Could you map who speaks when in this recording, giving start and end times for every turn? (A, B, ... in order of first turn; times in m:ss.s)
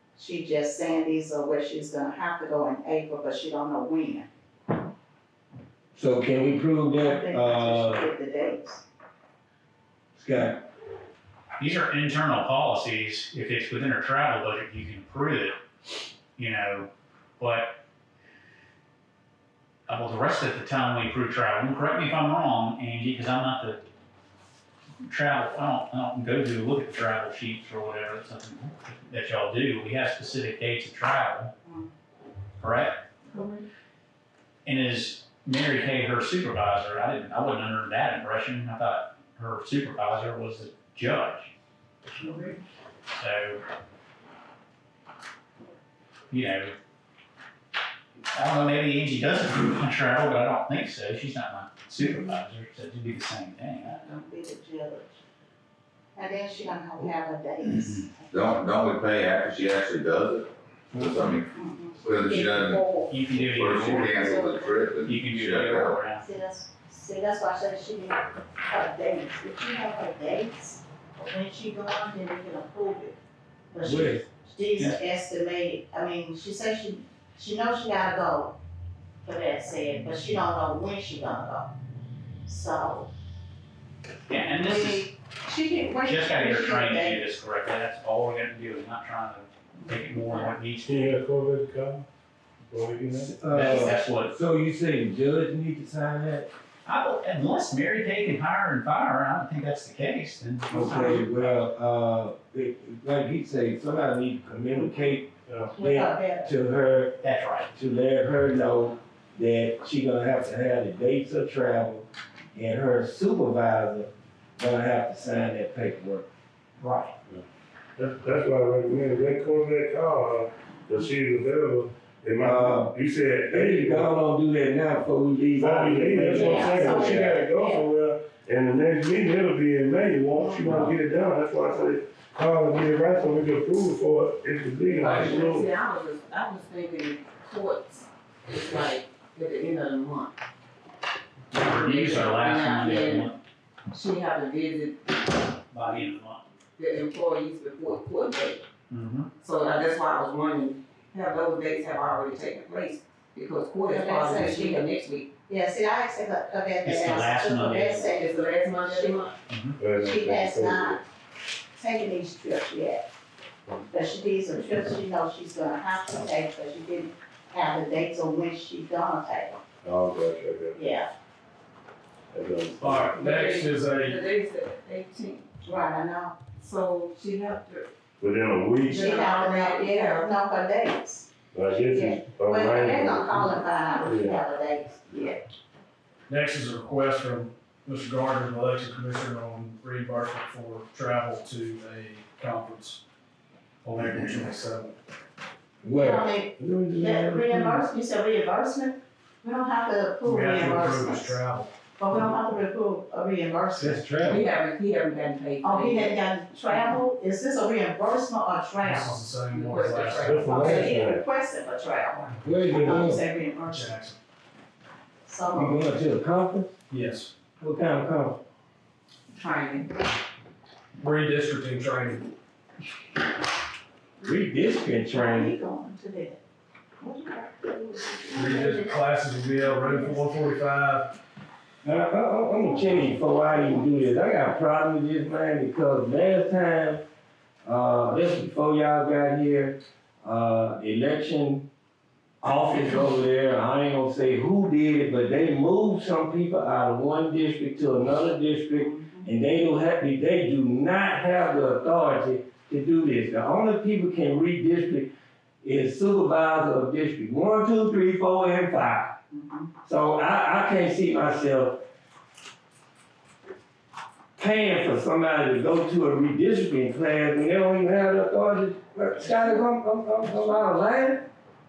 0:00.2-0:04.3 A
0:05.9-0:08.1 B
0:07.0-0:08.8 A
0:10.2-0:10.6 B
0:11.6-0:15.6 C
0:16.4-0:17.8 C
0:19.9-0:23.8 C
0:25.0-0:31.5 C
0:32.6-0:33.0 C
0:33.3-0:33.6 D
0:34.6-0:41.5 C
0:42.2-0:42.6 D
0:43.1-0:43.6 C
0:46.3-0:46.8 C
0:48.3-0:54.0 C
0:53.8-0:55.2 A
0:56.2-0:58.3 A
0:57.7-0:58.1 C
0:58.3-1:00.5 E
1:01.0-1:01.2 B
1:01.0-1:01.4 E
1:01.5-1:03.5 A
1:02.0-1:02.8 E
1:03.1-1:04.3 C
1:03.6-1:06.0 E
1:04.0-1:04.9 A
1:05.0-1:06.2 C
1:06.0-1:13.2 A
1:13.7-1:18.5 A
1:13.8-1:14.3 B
1:19.2-1:21.7 A
1:22.5-1:23.1 A
1:24.3-1:25.1 C
1:24.4-1:27.3 A
1:26.0-1:31.2 C
1:29.9-1:30.5 A
1:30.8-1:32.0 F
1:32.7-1:33.4 F
1:33.2-1:36.5 B
1:33.5-1:34.4 C
1:36.8-1:41.7 C
1:40.7-1:47.2 B
1:45.4-1:45.8 F
1:45.8-1:46.5 A
1:47.2-1:47.7 C
1:47.7-1:56.3 B
1:56.8-1:57.1 C
1:58.0-2:04.1 F
2:02.4-2:02.9 B
2:03.5-2:07.3 B
2:05.6-2:15.7 F
2:06.3-2:07.8 A
2:10.4-2:10.9 A
2:10.7-2:10.9 B
2:15.0-2:20.4 D
2:15.0-2:15.4 B
2:21.5-2:23.4 C
2:21.6-2:23.3 D
2:23.9-2:25.3 D
2:25.7-2:26.4 C
2:26.8-2:28.6 D
2:28.9-2:29.3 C
2:29.4-2:35.3 D
2:33.8-2:34.9 A
2:35.5-2:39.3 A
2:36.8-2:38.1 C
2:38.1-2:39.3 D
2:39.5-2:39.8 C
2:39.8-2:41.0 F
2:40.0-2:41.0 A
2:41.8-2:43.0 A
2:43.9-2:49.6 A
2:49.8-2:50.8 F
2:50.8-2:51.1 A
2:52.3-2:53.1 F
2:52.8-2:54.2 G
2:53.1-2:55.5 D
2:55.7-2:56.4 A
2:56.6-2:57.9 D
2:58.2-2:59.0 F
2:58.9-3:00.3 D
2:58.9-3:01.3 A
3:01.5-3:04.4 F
3:01.9-3:05.4 A
3:06.3-3:13.0 G
3:13.8-3:14.9 G
3:15.8-3:17.8 B
3:16.0-3:21.4 A
3:20.2-3:21.7 G
3:22.0-3:24.0 A
3:23.8-3:24.4 B
3:24.3-3:26.2 D
3:25.6-3:29.1 A
3:28.8-3:30.7 G
3:29.5-3:31.0 D
3:30.2-3:31.2 F
3:30.5-3:33.9 A
3:32.4-3:33.2 B
3:33.7-3:34.2 G
3:35.3-3:35.9 A
3:35.5-3:36.7 B
3:36.9-3:37.3 G
3:37.6-3:38.4 B
3:39.3-3:39.9 D
3:41.0-3:42.3 G
3:44.2-3:45.5 B
3:45.1-3:46.4 A
3:47.0-3:49.0 A
3:48.3-3:51.1 G
3:49.6-3:50.2 A
3:51.8-3:57.0 B
3:57.6-4:01.7 B
4:02.4-4:15.1 B
4:08.8-4:09.3 A
4:15.6-4:19.2 B
4:19.3-4:19.7 A
4:19.8-4:21.8 B
4:24.4-4:31.2 B